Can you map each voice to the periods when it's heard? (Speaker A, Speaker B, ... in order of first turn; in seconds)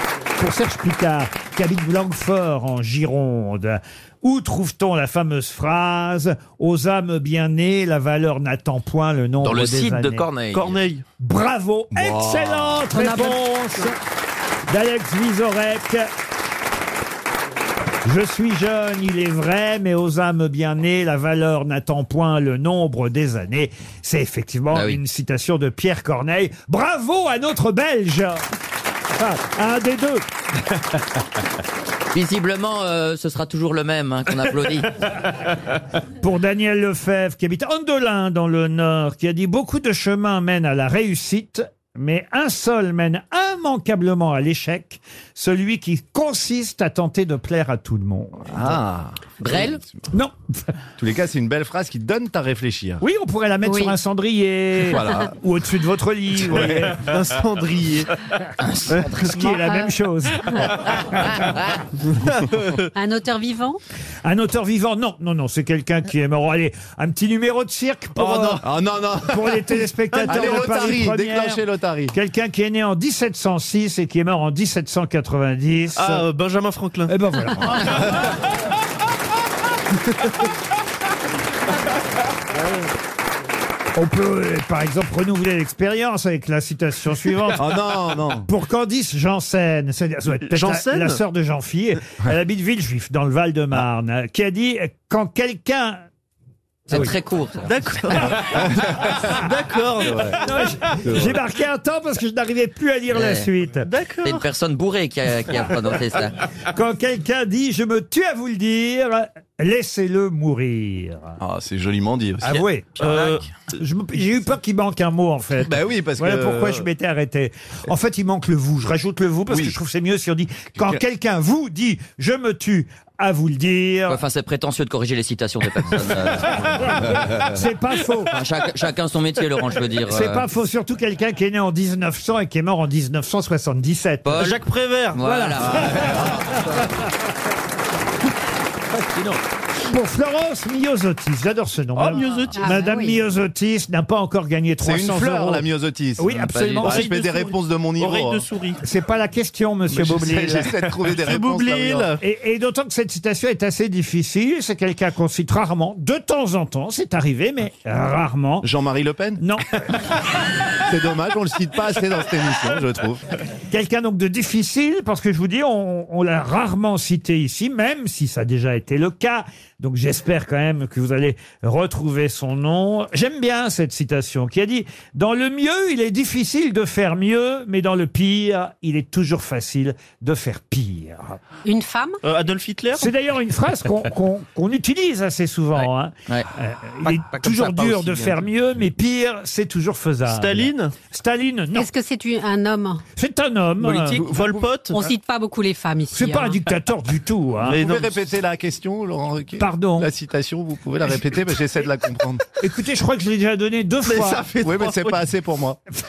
Speaker A: 0.4-10.3, 11.2-14.0, 14.7-16.1, 18.0-28.4, 29.1-30.2, 36.2-48.7, 53.0-57.1, 59.1-61.0, 64.2-68.6, 69.3-76.2, 77.1-78.0, 84.0-87.7, 88.4-96.0, 100.4-103.9, 106.7-111.4, 112.4-124.2, 127.4-128.3, 130.1-134.4, 135.2-136.3, 139.8-145.6, 146.2-147.1, 148.8-150.7, 152.2-158.7, 159.4-159.8, 163.7-181.4, 183.0-191.9, 193.2-194.2, 196.1-197.8, 199.6-200.1, 202.6-204.4
Speaker B: 9.4-10.8, 12.1-12.7, 187.0-188.5
Speaker C: 10.5-11.0, 56.6-58.1, 62.1-62.9, 68.2-68.6, 70.2-70.9, 76.0-77.1, 90.5-91.2, 97.6-100.4, 103.8-104.4, 113.0-113.5, 134.3-135.4, 142.0-142.7, 146.8-148.8, 151.1-152.2, 182.2-183.1, 190.3-190.9, 193.8-195.0, 197.6-198.3, 204.0-205.2
Speaker D: 12.9-13.9, 53.6-54.0, 59.6-59.9, 62.9-63.8, 142.5-143.2, 181.6-182.2, 191.7-193.0, 194.9-196.6
Speaker E: 24.7-25.0, 32.1-34.9, 49.4-49.8, 58.6-59.3, 96.9-97.7, 103.1-103.5, 104.2-106.3, 124.1-126.8, 128.2-130.4, 134.2-134.6, 135.1-136.0
Speaker F: 48.5-50.0, 51.0-53.0, 54.9-55.3, 68.6-72.1, 87.5-88.5, 98.3-99.4, 100.0-100.4, 101.0-101.4, 111.4-112.6, 115.6-116.8, 119.5-119.7, 135.8-136.6, 144.8-148.4, 149.9-152.2, 158.6-159.4, 160.8-163.2, 197.7-202.4, 204.6-205.8